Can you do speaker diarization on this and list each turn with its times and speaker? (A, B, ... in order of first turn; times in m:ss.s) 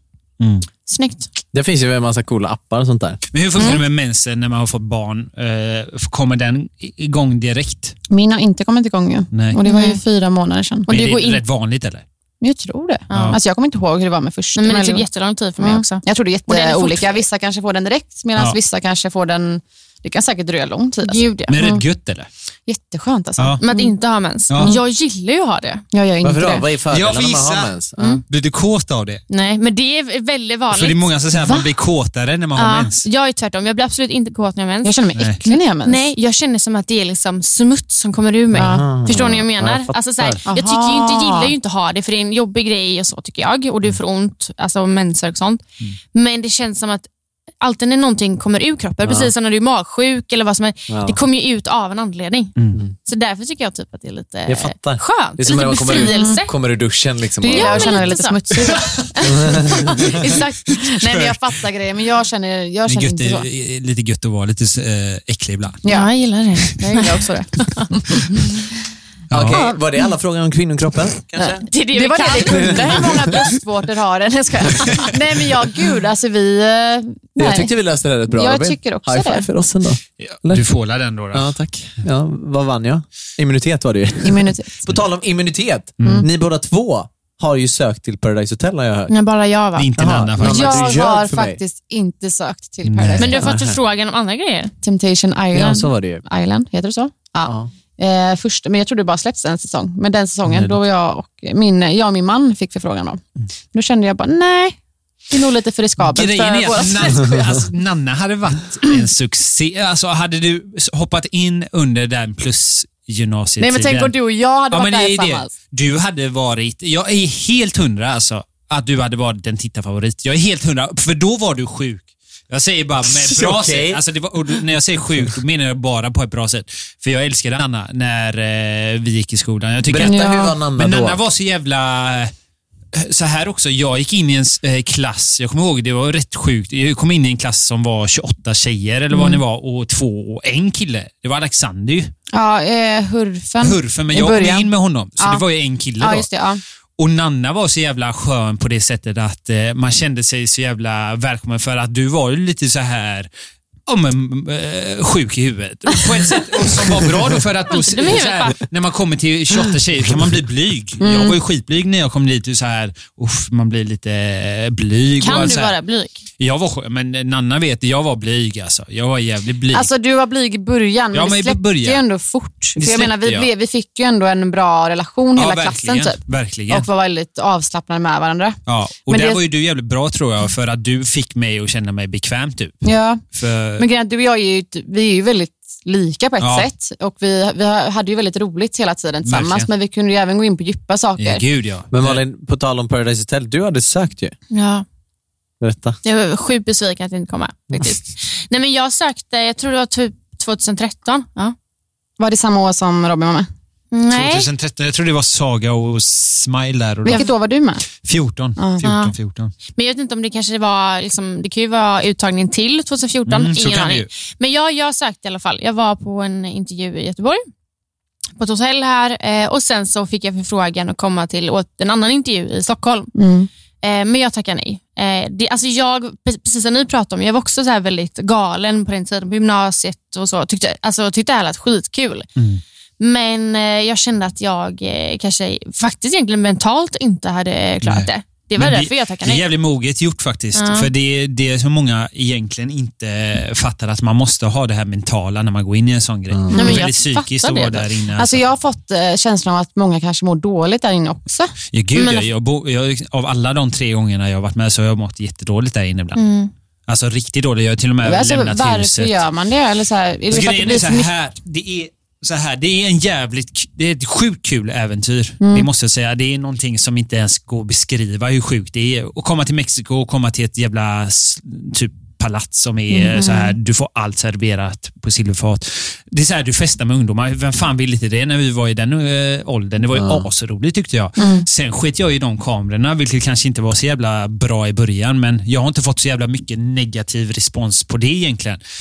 0:00.4-0:00.7 A
0:00.9-0:01.3 B
0:01.5-0:03.2 C
0:03.3-0:08.0 A
0:08.1-0:10.9 D
0:09.3-0:09.6 A
0:09.6-0:10.0 B
0:10.9-0:11.4 B
0:10.9-0:12.0 A
0:12.4-0:15.0 D
0:13.1-0:13.4 B
0:13.1-0:13.4 A
0:14.5-0:17.2 B
0:15.6-0:21.8 D
0:21.0-0:21.6 B
0:21.5-0:22.3 A
0:22.7-0:23.9 D
0:23.6-0:25.8 B
0:24.5-0:24.8 A
0:25.9-0:26.7 D
0:26.2-0:28.2 C
0:26.9-0:27.7 A
0:28.3-0:29.2 A
0:29.3-0:31.7 B
0:30.7-0:33.0 A
0:32.6-0:47.1 B
0:34.8-0:36.1 D
0:35.1-0:35.4 A
0:38.5-0:40.4 C
0:38.5-0:38.8 D
0:40.5-0:41.5 D
0:47.6-0:52.5 B
0:49.0-0:49.3 C
0:50.9-0:51.2 C
0:52.6-0:52.8 A
0:53.0-0:56.5 B
0:54.5-0:58.1 C
0:55.9-0:56.4 D
0:57.4-1:03.4 D
0:57.5-1:00.4 B
0:59.2-1:00.2 C
1:00.7-1:01.5 A
1:02.9-1:05.8 A
1:05.8-1:06.1 D
1:05.9-1:07.9 B
1:06.8-1:08.3 D
1:09.3-1:09.6 A
1:09.3-1:11.6 C
1:11.4-1:17.7 D
1:11.6-1:13.3 B
1:12.4-1:13.4 C
1:17.4-1:20.6 C
1:18.3-1:19.5 D
1:20.2-1:21.6 A
1:21.3-1:29.1 C
1:24.2-1:24.9 D
1:26.0-1:26.3 A
1:29.1-1:29.9 B
1:29.8-1:31.0 A
1:30.0-1:31.6 C
1:30.4-1:33.5 D
1:32.8-1:33.3 A
1:33.2-1:34.7 B
1:33.3-1:33.8 C
1:34.8-1:44.8 D
1:35.5-1:36.2 C
1:40.4-1:40.8 A
1:45.3-1:47.7 D
1:46.0-1:54.1 A
1:53.6-1:55.5 D
1:54.7-2:12.3 A
2:03.1-2:04.0 C
2:09.9-2:11.2 C
2:10.0-2:10.5 D
2:12.9-2:22.1 A
2:19.1-2:19.4 D
2:22.3-2:25.4 D
2:23.6-2:26.3 A
2:26.0-2:26.6 D
2:27.0-2:33.3 A
2:33.9-2:45.8 A
2:37.7-2:38.6 B
2:41.0-2:41.4 D
2:45.2-2:46.2 B
2:46.4-2:49.9 A
2:49.7-2:56.2 D
2:51.1-2:52.0 A
2:52.8-2:53.5 A
2:55.4-2:56.9 A
2:56.7-2:59.4 D
2:58.7-3:03.9 A
3:02.8-3:03.2 D
3:03.8-3:11.4 D
3:06.4-3:06.7 A
3:09.2-3:09.7 A
3:11.2-3:12.2 A
3:11.9-3:14.3 C
3:14.5-3:14.8 B
3:15.6-3:16.0 C
3:16.0-3:21.5 B
3:22.2-3:23.5 D
3:23.9-3:24.5 B
3:24.1-3:27.3 A
3:27.0-3:27.9 D
3:28.0-3:29.5 A
3:28.6-3:28.8 D
3:28.8-3:29.1 B
3:29.7-3:37.4 B
3:33.3-3:34.1 A
3:38.4-3:43.1 B
3:43.1-3:43.5 D
3:43.8-3:52.3 B
3:52.4-3:52.6 A
3:53.0-3:59.4 B
3:57.8-4:08.4 A
4:00.5-4:00.9 B
4:06.5-4:06.8 D
4:06.5-4:07.9 B
4:08.2-4:11.5 D
4:11.7-4:16.2 A
4:11.9-4:12.3 B
4:16.1-4:16.5 B
4:16.9-4:19.2 A
4:18.0-4:21.1 D
4:20.3-4:48.6 A
4:25.4-4:25.7 D
4:32.9-4:33.5 D
4:39.9-4:40.3 C
4:41.2-4:41.4 D